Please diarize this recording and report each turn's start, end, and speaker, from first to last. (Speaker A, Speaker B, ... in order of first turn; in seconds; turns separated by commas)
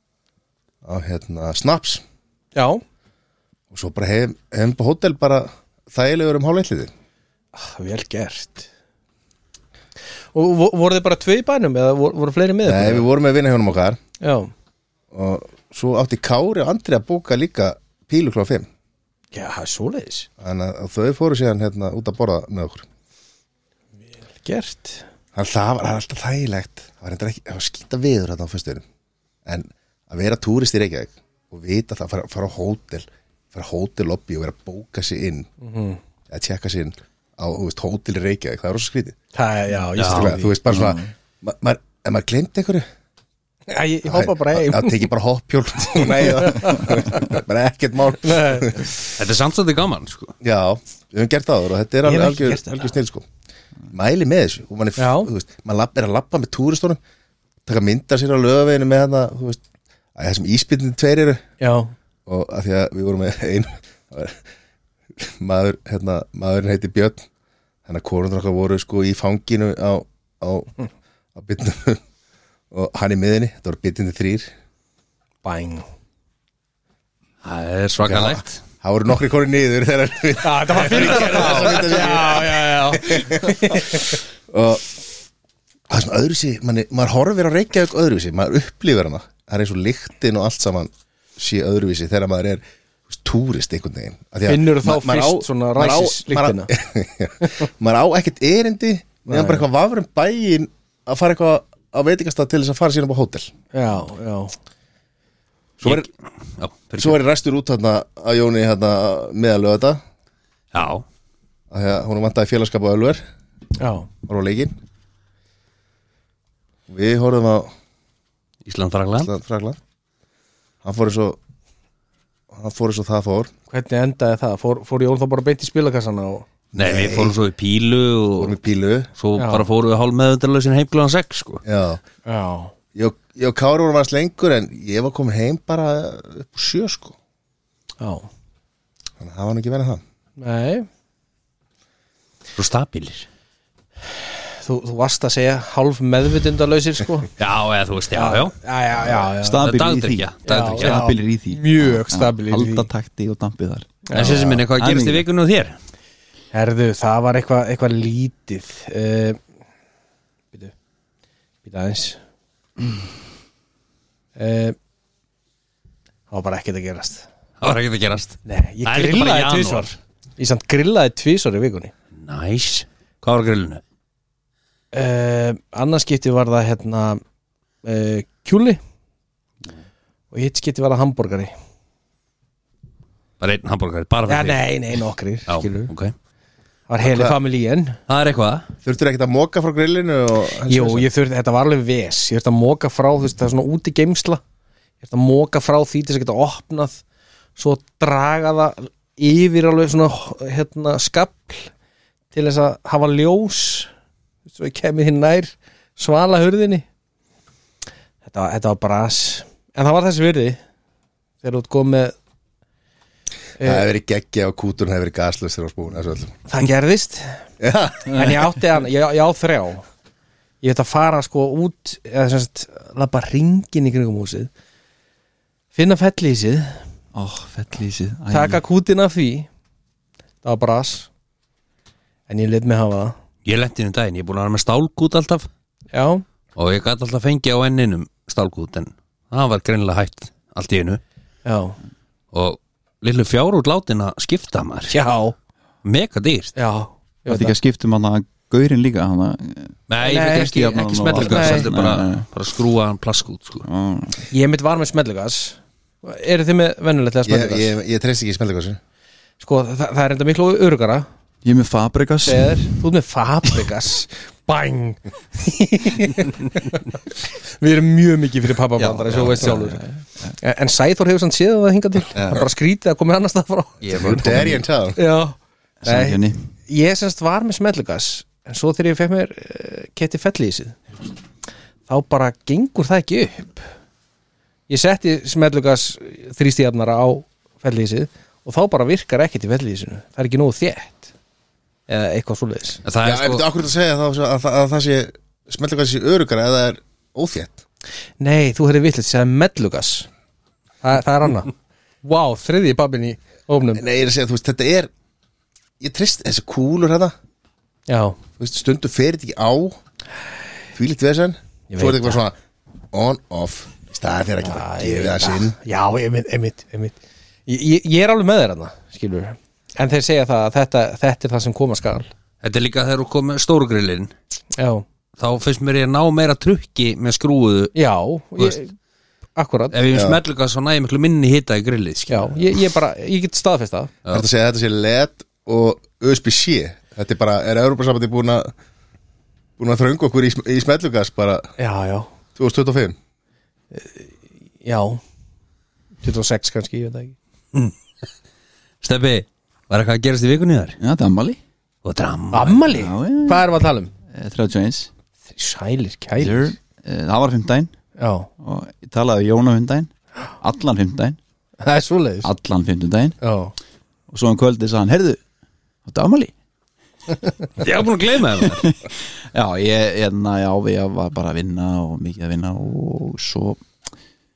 Speaker A: 0.8-2.0, Speaker B: 2.5-2.8, Speaker A: 3.7-6.9, Speaker B: 7.5-8.7, Speaker B: 10.3-13.1, Speaker A: 12.7-14.0, Speaker B: 14.2-14.5, Speaker A: 15.1-18.7, Speaker B: 19.3-20.3, Speaker A: 20.4-22.9, Speaker B: 24.1-25.1, Speaker A: 25.3-28.8, Speaker A: 29.4-35.5, Speaker B: 35.6-36.0, Speaker A: 36.3-39.2, Speaker B: 39.3-41.0, Speaker C: 40.0-40.3, Speaker A: 40.0-42.9, Speaker B: 43.7-45.1, Speaker A: 44.1-48.9, Speaker B: 45.9-47.3, Speaker B: 48.2-48.9, Speaker C: 49.2-50.3, Speaker A: 50.4-53.2, Speaker B: 52.0-52.9, Speaker A: 53.9-57.0, Speaker B: 55.0-55.3, Speaker A: 57.7-59.6, Speaker A: 60.2-61.4, Speaker B: 61.6-61.9, Speaker A: 62.3-64.4, Speaker A: 65.2-67.2, Speaker A: 67.8-70.7, Speaker A: 71.3-72.0, Speaker A: 72.7-74.5, Speaker B: 75.4-75.8, Speaker C: 77.4-78.5, Speaker A: 78.0-84.0, Speaker B: 80.4-84.2, Speaker C: 80.9-81.9, Speaker A: 84.5-85.0, Speaker A: 85.9-103.5, Speaker B: 94.5-96.7, Speaker B: 99.3-99.6, Speaker B: 103.7-104.6, Speaker A: 105.8-106.1, Speaker C: 105.8-107.2, Speaker A: 107.0-110.0, Speaker C: 110.7-111.0, Speaker A: 111.7-113.2, Speaker B: 113.8-114.1, Speaker A: 114.2-114.7, Speaker A: 116.9-117.7, Speaker C: 118.7-119.3, Speaker A: 119.2-119.8, Speaker A: 120.8-121.4, Speaker A: 122.5-123.5, Speaker B: 123.7-126.5, Speaker A: 126.7-127.4, Speaker C: 126.8-128.6, Speaker A: 128.4-129.1, Speaker C: 129.2-131.6, Speaker B: 129.4-129.7, Speaker A: 131.7-132.0, Speaker B: 132.2-132.7, Speaker A: 132.9-137.2, Speaker B: 138.0-138.3, Speaker A: 139.2-140.0, Speaker B: 140.4-140.9, Speaker C: 142.6-143.3, Speaker B: 144.5-147.3, Speaker C: 147.4-148.6, Speaker B: 148.1-149.7, Speaker D: 149.3-155.2, Speaker C: 149.6-151.1, Speaker B: 150.4-152.9, Speaker B: 154.1-154.3, Speaker C: 154.1-155.8, Speaker B: 156.5-159.4, Speaker B: 161.6-162.2, Speaker B: 164.3-164.7, Speaker B: 166.3-167.3, Speaker C: 167.6-169.9, Speaker B: 168.4-171.9, Speaker C: 172.2-173.8, Speaker B: 174.9-177.2, Speaker B: 177.8-178.8, Speaker B: 180.3-181.5, Speaker C: 183.4-184.6, Speaker B: 184.3-185.9, Speaker C: 185.5-186.1, Speaker B: 186.9-188.0, Speaker A: 187.0-187.4, Speaker C: 188.1-188.7, Speaker A: 188.8-191.1, Speaker B: 190.7-194.4, Speaker B: 195.0-197.0, Speaker B: 197.6-201.7, Speaker B: 202.3-203.9, Speaker B: 204.5-206.8, Speaker B: 208.2-210.6, Speaker B: 211.4-212.2, Speaker B: 213.6-213.9, Speaker A: 213.6-216.3, Speaker B: 216.5-217.4, Speaker A: 217.6-218.2, Speaker B: 218.1-219.8, Speaker B: 220.6-224.5, Speaker B: 225.7-226.8, Speaker D: 227.1-228.6, Speaker B: 228.3-229.5, Speaker B: 230.4-231.1, Speaker B: 232.3-233.2, Speaker C: 233.4-235.5, Speaker B: 235.9-236.2, Speaker C: 236.6-241.0, Speaker B: 241.4-241.8, Speaker C: 242.3-244.9, Speaker B: 244.9-245.3, Speaker C: 245.8-246.5, Speaker B: 246.6-247.6, Speaker D: 247.3-252.2, Speaker C: 249.9-253.7, Speaker B: 250.0-251.7, Speaker D: 253.6-254.3, Speaker B: 254.3-257.7, Speaker A: 257.3-258.8, Speaker B: 259.4-261.1, Speaker D: 261.4-262.7, Speaker B: 262.3-266.9, Speaker B: 267.6-269.8, Speaker D: 268.8-270.3, Speaker B: 270.4-274.2, Speaker D: 272.1-272.4, Speaker D: 273.8-274.6, Speaker C: 273.9-274.2, Speaker A: 273.9-275.0, Speaker B: 274.9-280.8, Speaker D: 275.8-276.5, Speaker B: 281.9-283.7, Speaker B: 284.7-291.1, Speaker B: 291.9-292.8, Speaker C: 292.8-293.4, Speaker A: 293.0-297.6, Speaker B: 298.2-300.1, Speaker B: 300.8-301.5, Speaker B: 302.0-303.8, Speaker A: 303.7-304.9, Speaker A: 305.8-307.1, Speaker B: 307.9-308.2, Speaker A: 308.4-309.8, Speaker A: 310.7-312.3, Speaker B: 311.7-312.2, Speaker A: 312.9-315.6, Speaker B: 314.4-322.1, Speaker C: 322.4-324.1, Speaker B: 324.6-324.8, Speaker C: 325.2-327.7, Speaker B: 327.7-328.7, Speaker B: 329.4-329.8, Speaker C: 329.7-332.6, Speaker A: 329.9-330.2, Speaker B: 332.1-333.9, Speaker A: 334.1-338.5, Speaker A: 339.6-341.5, Speaker B: 341.6-342.1, Speaker A: 342.4-342.9, Speaker B: 343.7-344.1, Speaker B: 344.6-345.0, Speaker B: 346.0-347.2, Speaker C: 348.8-350.8, Speaker D: 350.8-351.4, Speaker C: 351.8-352.6, Speaker B: 352.3-353.9, Speaker D: 352.7-353.5, Speaker D: 354.1-354.9, Speaker B: 355.3-356.6, Speaker D: 356.2-357.7, Speaker B: 358.0-358.3, Speaker D: 358.4-361.2, Speaker B: 361.6-362.3, Speaker D: 362.2-363.2, Speaker B: 363.2-363.5, Speaker D: 364.1-365.2, Speaker D: 365.9-366.3, Speaker C: 367.6-368.7, Speaker D: 368.4-373.6